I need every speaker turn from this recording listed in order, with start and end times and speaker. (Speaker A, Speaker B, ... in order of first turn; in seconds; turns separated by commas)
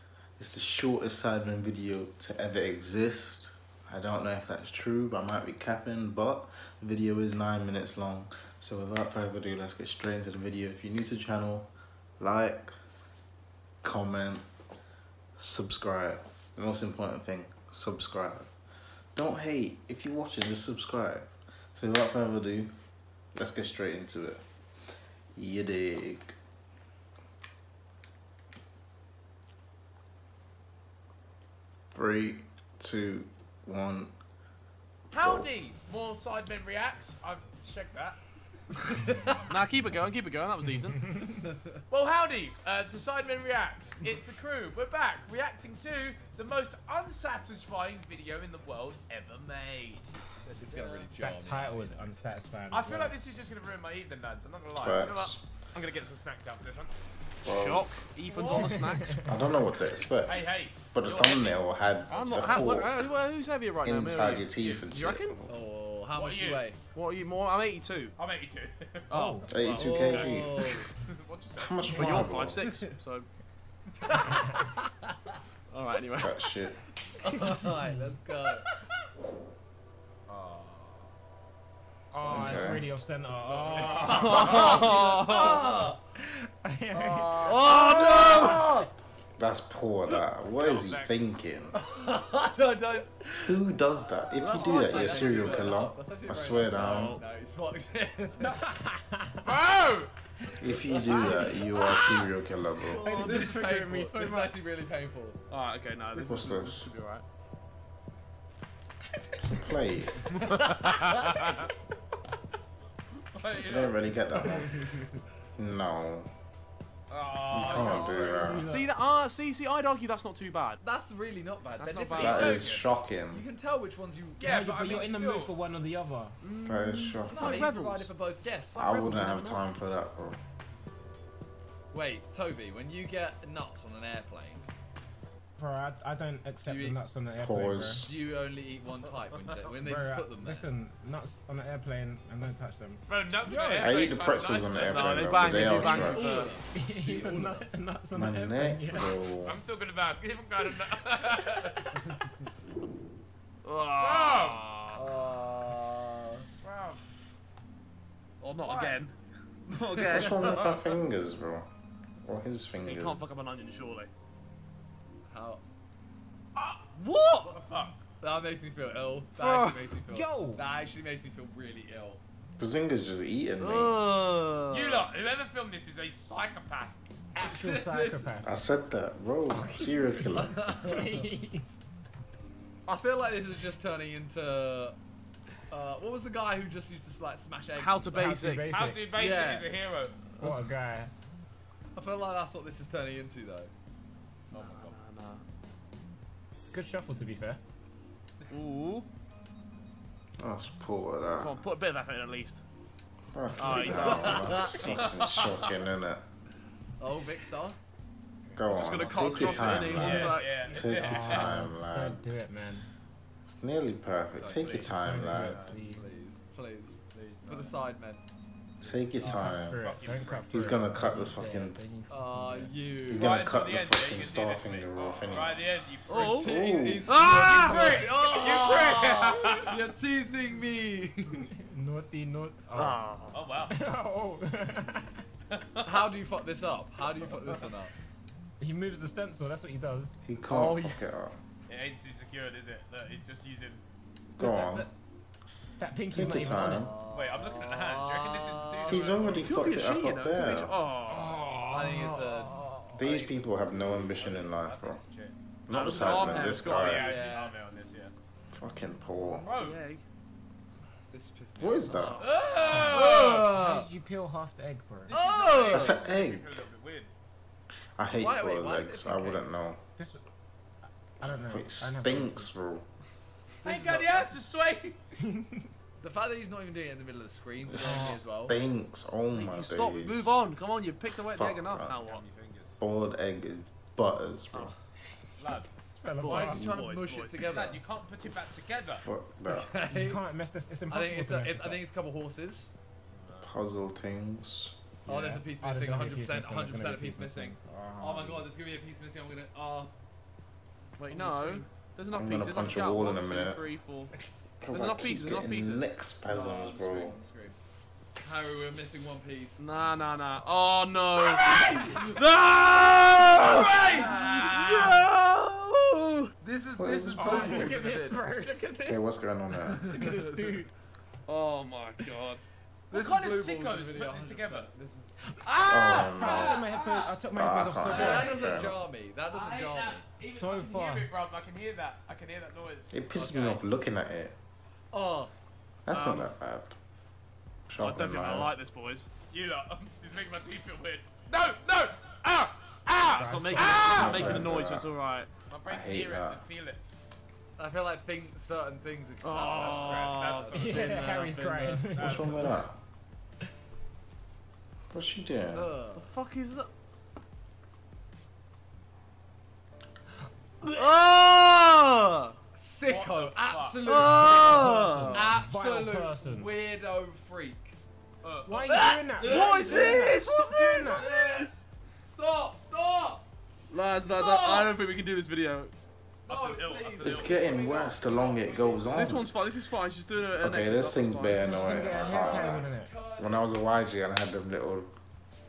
Speaker A: 0.4-12.7, Speaker A: 13.8-14.4, Speaker A: 15.4-18.5, Speaker A: 19.2-22.8, Speaker A: 23.4-24.4, Speaker A: 25.4-26.4, Speaker A: 31.9-34.1, Speaker B: 35.1-38.2, Speaker A: 35.2-35.5, Speaker C: 39.5-41.0, Speaker D: 41.4-41.7, Speaker B: 41.9-50.1, Speaker D: 50.5-51.9, Speaker B: 50.7-51.1, Speaker E: 51.2-53.2, Speaker B: 52.7-56.9, Speaker A: 54.8-55.4, Speaker C: 57.4-59.2, Speaker A: 57.4-58.0, Speaker B: 58.3-58.8, Speaker E: 58.5-59.8, Speaker A: 59.1-63.0, Speaker B: 60.3-61.6, Speaker C: 62.1-65.4, Speaker A: 63.8-65.5, Speaker D: 65.5-66.8, Speaker B: 66.2-66.7, Speaker C: 66.9-68.2, Speaker B: 68.2-69.2, Speaker C: 69.1-70.9, Speaker E: 69.1-69.5, Speaker A: 69.5-70.8, Speaker D: 69.8-70.8, Speaker B: 71.0-72.2, Speaker A: 71.5-72.7, Speaker C: 71.9-73.3, Speaker D: 74.1-74.3, Speaker C: 75.7-76.4, Speaker A: 76.2-76.8, Speaker D: 77.2-78.7, Speaker E: 77.6-78.0, Speaker B: 80.3-80.8, Speaker E: 82.1-85.0, Speaker A: 82.2-82.9, Speaker B: 83.3-85.6, Speaker D: 83.8-86.0, Speaker C: 84.0-85.9, Speaker E: 86.2-87.5, Speaker D: 86.9-88.9, Speaker C: 87.4-88.7, Speaker A: 89.4-91.8, Speaker B: 90.6-91.3, Speaker D: 91.8-93.6, Speaker A: 93.4-97.2, Speaker D: 94.3-98.5, Speaker C: 95.2-95.6, Speaker C: 96.7-97.2, Speaker E: 98.4-99.6, Speaker B: 99.5-100.1, Speaker A: 100.6-103.1, Speaker E: 100.6-101.7, Speaker D: 102.7-105.4, Speaker E: 103.0-104.6, Speaker C: 105.5-107.2, Speaker A: 106.2-106.9, Speaker A: 109.5-110.4, Speaker B: 110.3-111.6, Speaker D: 110.7-111.1, Speaker B: 113.3-114.0, Speaker A: 113.6-114.8, Speaker A: 115.6-116.3, Speaker B: 117.1-118.6, Speaker A: 117.5-118.7, Speaker E: 117.7-118.9, Speaker C: 118.6-120.8, Speaker D: 120.8-122.7, Speaker C: 121.8-122.7, Speaker B: 122.2-122.8, Speaker A: 122.2-123.4, Speaker D: 123.3-124.6, Speaker B: 124.4-125.5, Speaker E: 124.4-126.4, Speaker C: 126.4-128.1, Speaker A: 126.7-127.7, Speaker D: 127.3-129.6, Speaker A: 128.7-130.4, Speaker C: 128.8-129.6, Speaker D: 131.9-134.7, Speaker E: 135.6-138.0, Speaker D: 136.6-137.0, Speaker A: 137.4-138.1, Speaker D: 138.0-140.7, Speaker E: 139.8-143.9, Speaker B: 143.1-146.0, Speaker A: 143.8-146.3, Speaker C: 144.8-146.6, Speaker D: 145.8-146.7, Speaker E: 146.7-149.2, Speaker A: 148.1-149.6, Speaker B: 149.4-151.9, Speaker C: 153.6-155.1, Speaker B: 154.0-154.6, Speaker D: 154.9-156.4, Speaker B: 156.6-157.0, Speaker C: 158.4-160.9, Speaker B: 158.6-159.0, Speaker D: 159.9-160.2, Speaker A: 160.1-161.7, Speaker A: 162.2-163.2, Speaker C: 162.8-164.1, Speaker D: 165.2-165.6, Speaker D: 166.9-167.6, Speaker B: 167.4-168.0, Speaker D: 168.2-172.2, Speaker C: 169.4-169.9, Speaker E: 170.1-170.6, Speaker A: 172.6-174.0, Speaker D: 173.6-175.1, Speaker B: 174.7-177.0, Speaker E: 177.3-178.5, Speaker D: 177.4-178.4, Speaker A: 178.4-180.7, Speaker E: 179.5-181.8, Speaker D: 180.4-181.2, Speaker D: 182.9-185.0, Speaker D: 185.7-188.2, Speaker C: 187.8-188.7, Speaker E: 188.1-189.1, Speaker B: 188.7-190.2, Speaker D: 189.1-189.7, Speaker E: 190.4-191.1, Speaker D: 191.9-193.7, Speaker B: 194.5-195.0, Speaker D: 194.5-194.8, Speaker C: 194.8-195.4, Speaker E: 196.7-197.6, Speaker C: 198.5-199.1, Speaker A: 200.4-201.6, Speaker C: 201.3-202.6, Speaker A: 203.3-206.2, Speaker C: 203.6-205.7, Speaker B: 204.7-205.2, Speaker D: 207.0-207.8, Speaker A: 208.6-212.2, Speaker C: 208.7-210.7, Speaker D: 208.8-210.2, Speaker B: 209.9-211.6, Speaker E: 209.9-212.9, Speaker A: 213.5-215.7, Speaker D: 214.4-214.9, Speaker E: 214.9-216.1, Speaker B: 215.3-215.7, Speaker D: 215.8-218.2, Speaker B: 217.1-217.8, Speaker A: 218.8-219.8, Speaker B: 218.8-220.8, Speaker E: 219.2-222.8, Speaker A: 220.5-221.8, Speaker D: 222.1-223.3, Speaker A: 223.1-225.6, Speaker B: 223.1-226.5, Speaker D: 226.1-231.5, Speaker C: 226.1-226.6, Speaker A: 226.3-227.1, Speaker C: 227.1-227.9, Speaker B: 227.2-229.7, Speaker E: 231.5-233.1, Speaker C: 232.8-233.4, Speaker B: 233.3-233.8, Speaker E: 233.7-235.1, Speaker B: 235.5-236.1, Speaker D: 235.8-237.9, Speaker E: 238.6-240.1, Speaker A: 240.2-241.4, Speaker C: 240.5-241.0, Speaker B: 241.7-243.8, Speaker E: 244.4-244.9, Speaker A: 244.4-244.9, Speaker E: 245.8-246.9, Speaker A: 246.1-246.9, Speaker D: 246.3-249.2, Speaker B: 247.1-249.8, Speaker A: 248.9-250.8, Speaker C: 249.4-252.8, Speaker E: 251.1-251.6, Speaker D: 251.7-254.1, Speaker A: 253.0-255.0, Speaker B: 254.2-258.1, Speaker A: 255.7-257.1, Speaker C: 255.7-257.0, Speaker D: 256.8-257.5, Speaker A: 258.5-259.5, Speaker B: 259.4-259.8, Speaker C: 259.5-260.0, Speaker D: 261.1-263.9, Speaker A: 261.6-262.2, Speaker C: 262.0-263.2, Speaker B: 262.2-263.5, Speaker E: 262.6-265.1, Speaker B: 265.1-267.1, Speaker D: 265.1-266.0, Speaker C: 265.3-265.8, Speaker A: 265.7-266.6, Speaker A: 268.0-269.8, Speaker D: 268.1-269.4, Speaker E: 270.0-270.2, Speaker E: 271.2-272.5, Speaker A: 271.5-272.9, Speaker B: 273.6-275.0, Speaker D: 273.6-274.3, Speaker E: 275.2-275.7, Speaker D: 276.0-278.6, Speaker A: 277.7-280.4, Speaker E: 277.8-278.2, Speaker C: 279.3-282.2, Speaker A: 281.3-282.0, Speaker B: 281.9-282.8, Speaker A: 282.8-284.8, Speaker B: 285.4-285.7, Speaker E: 285.8-286.8, Speaker C: 286.2-287.5, Speaker D: 286.2-287.8, Speaker B: 287.5-289.0, Speaker A: 288.9-289.7, Speaker D: 289.5-290.2, Speaker E: 289.9-291.8, Speaker D: 290.9-292.7, Speaker B: 293.1-293.6, Speaker A: 293.4-294.8, Speaker E: 295.1-298.3, Speaker D: 295.1-299.9, Speaker C: 301.0-304.1, Speaker D: 301.1-301.7, Speaker A: 302.1-303.6, Speaker A: 304.6-307.2, Speaker C: 304.7-305.9, Speaker D: 306.3-307.6, Speaker D: 308.2-309.6, Speaker C: 309.6-316.3, Speaker D: 311.2-312.2, Speaker D: 313.4-315.1, Speaker D: 316.4-318.2, Speaker A: 316.8-317.8, Speaker E: 317.1-319.1, Speaker A: 318.9-319.9, Speaker E: 319.7-320.7, Speaker C: 321.3-322.4, Speaker B: 322.9-324.7, Speaker D: 322.9-325.1, Speaker A: 325.6-326.6, Speaker C: 325.8-326.5, Speaker D: 325.9-326.7, Speaker B: 325.9-326.7, Speaker E: 326.0-328.4, Speaker A: 327.3-328.8, Speaker D: 327.8-330.1, Speaker B: 328.0-328.6, Speaker B: 329.3-333.6, Speaker E: 330.2-331.1, Speaker A: 332.9-334.4, Speaker D: 334.9-335.3, Speaker A: 335.9-336.8, Speaker C: 335.9-336.3, Speaker A: 337.7-338.6, Speaker C: 337.8-339.1, Speaker B: 339.2-344.3, Speaker C: 342.9-345.3, Speaker E: 343.1-344.6, Speaker A: 343.9-344.9, Speaker B: 345.4-346.8, Speaker A: 345.6-346.4, Speaker D: 347.6-350.8, Speaker C: 349.2-351.9, Speaker B: 349.4-350.8, Speaker E: 350.5-352.6, Speaker B: 351.8-352.6, Speaker A: 351.9-352.8, Speaker A: 354.9-355.7, Speaker D: 355.5-356.1, Speaker C: 355.9-356.7, Speaker C: 360.7-362.4, Speaker D: 362.5-367.8, Speaker B: 362.9-364.1, Speaker C: 363.8-365.3, Speaker E: 364.1-366.5, Speaker B: 368.2-368.7, Speaker E: 368.5-371.1, Speaker C: 368.7-371.5, Speaker D: 368.8-373.2, Speaker C: 373.7-375.8, Speaker D: 374.0-374.7, Speaker B: 376.3-377.4, Speaker D: 376.3-379.2, Speaker A: 377.0-379.3, Speaker C: 378.9-382.6, Speaker A: 380.4-384.9, Speaker E: 381.4-382.9, Speaker D: 382.0-383.4